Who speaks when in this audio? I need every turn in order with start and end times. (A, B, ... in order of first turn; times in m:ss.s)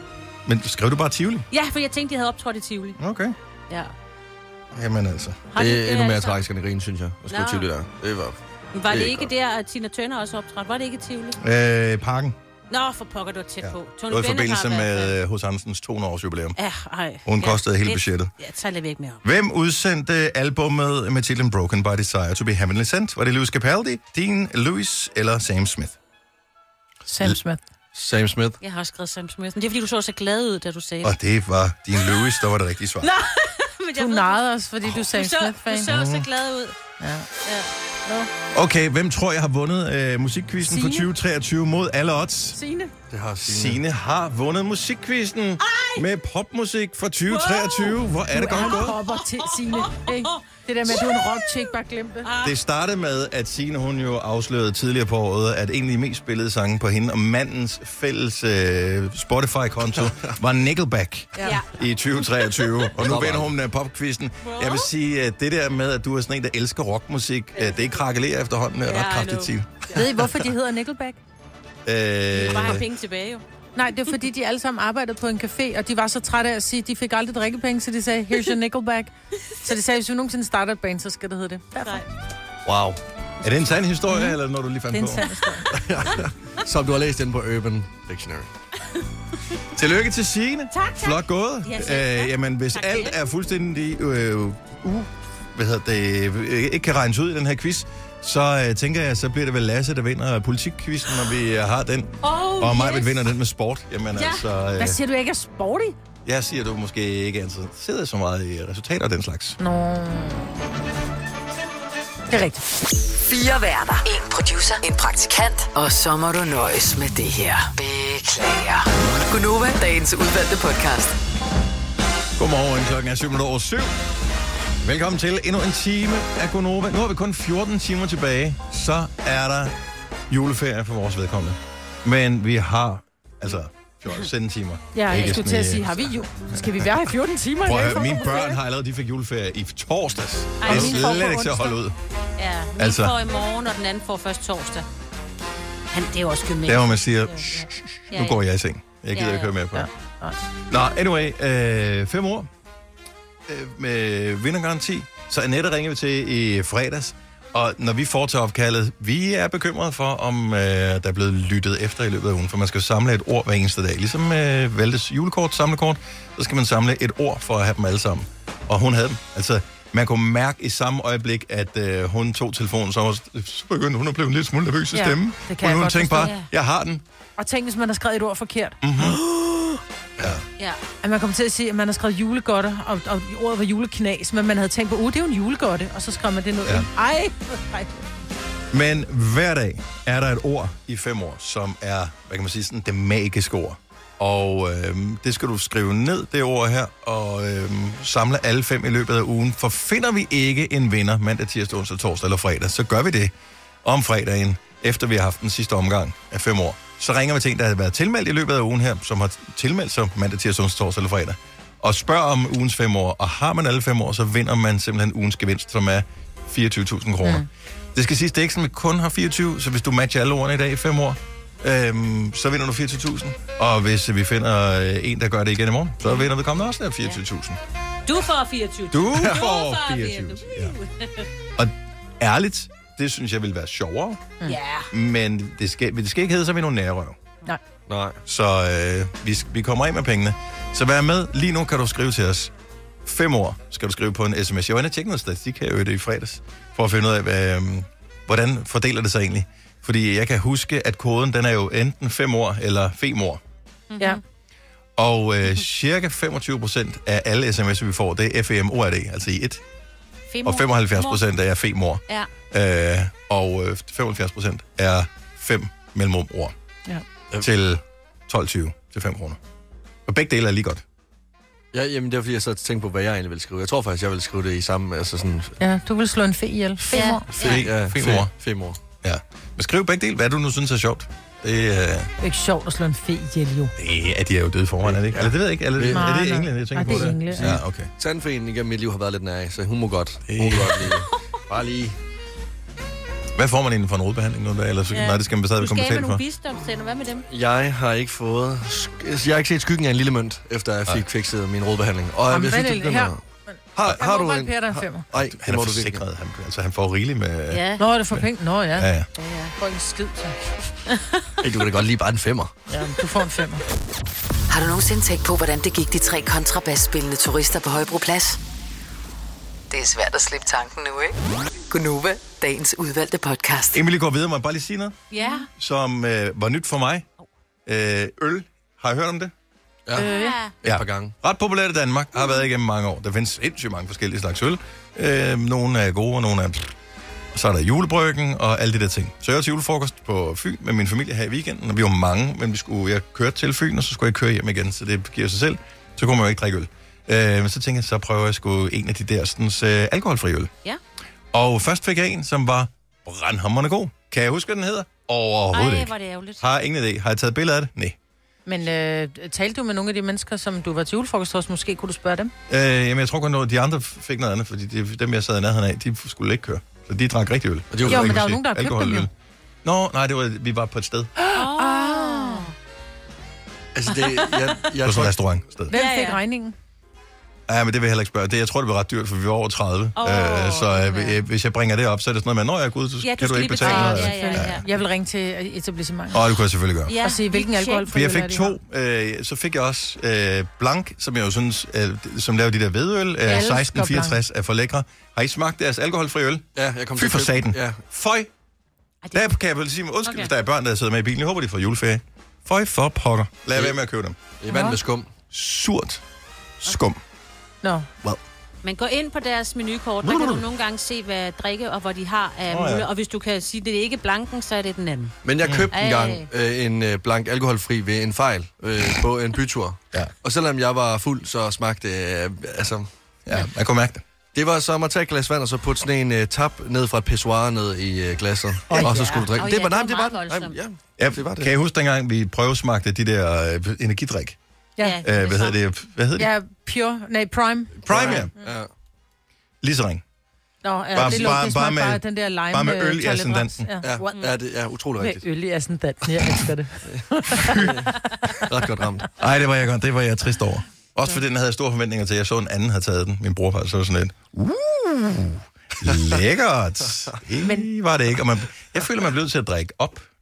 0:00.5-0:01.5 A
0:01.5-0:03.0 B
0:03.0-0:03.4 A
0:04.7-0:05.5 A
0:05.5-0:06.4 B
0:05.6-0:08.4 C
0:07.3-0:07.7 B
0:08.7-0:11.4 B
0:08.9-0:09.3 C
0:11.4-0:12.4 A
0:12.7-0:15.2 B
0:13.6-0:16.6 A
0:16.6-0:19.2 B
0:17.3-0:18.3 A
0:19.2-0:26.0 A
0:27.1-0:27.6 D
0:27.9-0:28.6 C
0:28.6-0:31.2 B
0:31.0-0:33.1 A
0:32.1-0:32.4 B
0:33.0-0:36.8 B
0:34.0-0:35.9 D
0:35.9-0:36.3 A
0:37.0-0:37.3 D
0:37.4-0:37.7 B
0:38.5-0:42.6 A
0:40.6-0:41.1 D
0:42.5-0:42.9 D
0:43.1-0:43.8 C
0:43.4-0:49.0 A
0:45.6-0:46.0 B
0:47.3-0:51.4 B
0:48.3-0:52.3 D
0:52.2-0:52.6 B
0:52.4-1:10.0 A
1:01.4-1:01.8 B
1:02.3-1:02.7 B
1:03.0-1:03.5 C
1:04.4-1:04.9 B
1:08.9-1:09.5 B
1:09.9-1:11.2 D
1:11.8-1:12.9 A
1:12.3-1:13.4 B
1:13.8-1:22.0 D
1:21.8-1:22.0 B
1:22.6-1:23.0 C
1:23.4-1:25.3 A
1:24.1-1:24.4 D
1:24.9-1:25.7 D
1:25.7-1:28.5 C
1:29.7-1:45.0 A
1:30.7-1:33.2 B
1:42.2-1:43.3 B
1:44.2-1:44.4 B
1:44.8-1:46.0 D
1:46.2-1:49.6 A
1:49.6-1:50.5 D
1:52.3-1:52.6 D
1:53.1-2:01.2 E
2:02.4-2:03.9 A
2:04.8-2:09.7 A
2:10.3-2:16.9 A
2:14.9-2:18.5 D
2:17.6-2:22.0 A
2:20.6-2:21.5 B
2:20.7-2:21.8 D
2:22.4-2:24.9 B
2:22.8-2:23.2 A
2:25.9-2:27.0 B
2:26.6-2:29.9 A
2:28.1-2:28.4 B
2:29.1-2:29.5 B
2:29.7-2:30.4 D
2:30.7-2:32.5 A
2:33.5-2:57.0 A
2:54.9-2:56.3 D
2:56.2-2:56.5 B
2:57.4-2:58.8 D
2:58.8-2:59.2 A
2:59.3-3:00.4 C
3:01.0-3:08.0 D
3:08.7-3:23.3 A
3:23.8-3:47.6 A
3:48.1-3:51.3 B
3:48.9-3:50.8 A
3:51.6-3:54.3 A
3:54.4-3:54.9 B
3:54.9-3:57.2 A
3:57.9-3:58.2 C
3:58.3-4:02.5 A
4:03.0-4:13.4 A
4:13.9-4:14.2 B
4:15.0-4:19.6 A
4:20.3-4:21.2 B
4:20.4-4:26.5 A
4:27.4-4:29.4 A
4:30.1-4:30.8 A
4:31.7-4:35.6 C
4:35.6-4:37.3 D
4:36.9-4:37.6 B
4:37.3-4:38.8 C
4:37.4-4:38.3 A
4:39.0-4:42.1 A
4:42.2-4:43.7 D
4:43.8-4:47.9 A
4:44.8-4:46.1 C
4:45.9-4:47.5 D
4:46.9-4:52.0 C
4:50.3-4:50.9 A
4:53.4-4:56.2 A
4:54.9-4:57.3 B
4:57.3-5:03.2 C
5:02.3-5:05.0 D
5:03.8-5:06.0 C
5:05.2-5:09.1 A
5:07.5-5:07.8 B
5:07.8-5:08.9 D
5:09.2-5:09.5 B
5:09.6-5:10.4 D
5:10.9-5:11.3 B
5:11.4-5:12.5 C
5:12.7-5:13.6 D
5:14.5-5:18.4 E
5:19.7-5:21.2 E
5:21.7-5:23.8 E
5:23.7-5:25.0 A
5:25.1-5:25.5 B
5:25.6-5:27.1 A
5:27.7-5:29.3 A
5:30.0-5:30.4 D
5:30.0-5:30.5 B
5:30.6-5:31.1 C
5:30.6-5:36.7 A
5:37.3-5:50.5 A
5:51.3-5:58.0 A
5:55.5-5:56.5 B
5:58.5-6:02.3 D
6:02.5-6:09.1 A
6:07.7-6:08.2 C
6:07.9-6:09.1 D
6:09.6-6:11.1 A
6:11.2-6:12.5 D
6:11.3-6:12.5 B
6:13.8-6:15.2 C
6:13.9-6:14.6 B
6:14.8-6:15.7 A
6:15.7-6:16.6 D
6:15.7-6:16.2 B
6:17.5-6:24.6 A
6:20.0-6:21.2 B
6:23.0-6:24.6 B
6:23.6-6:26.2 D
6:26.1-6:27.0 A
6:26.9-6:27.9 B
6:27.0-6:28.6 D
6:27.9-6:38.3 A
6:33.3-6:34.2 D
6:36.6-6:37.8 C
6:39.0-6:39.3 B
6:39.1-6:44.2 A
6:40.0-6:40.3 B
6:44.4-6:45.1 C
6:44.5-6:44.8 D
6:45.3-6:46.0 A
6:46.6-6:47.0 A
6:47.6-6:47.9 D
6:48.6-6:55.2 B
6:50.0-6:50.4 A
6:52.5-6:52.9 A
6:55.2-7:02.9 C
6:55.4-6:55.7 A
6:55.7-6:56.3 B
7:03.3-7:04.0 A
7:04.3-7:11.5 C
7:08.7-7:09.2 D
7:08.8-7:10.6 B
7:11.0-7:14.4 A
7:14.8-7:15.6 B
7:15.0-7:16.3 A
7:16.2-7:18.2 D
7:17.8-7:18.7 C
7:17.9-7:18.3 A
7:19.6-7:20.0 A
7:20.6-7:24.3 D
7:20.9-7:23.7 A
7:21.0-7:21.3 C
7:23.8-7:25.2 C
7:25.0-7:28.4 D
7:26.9-7:28.0 C
7:27.4-7:27.7 A
7:28.5-7:29.1 C
7:29.2-7:40.1 A
7:37.4-7:37.7 D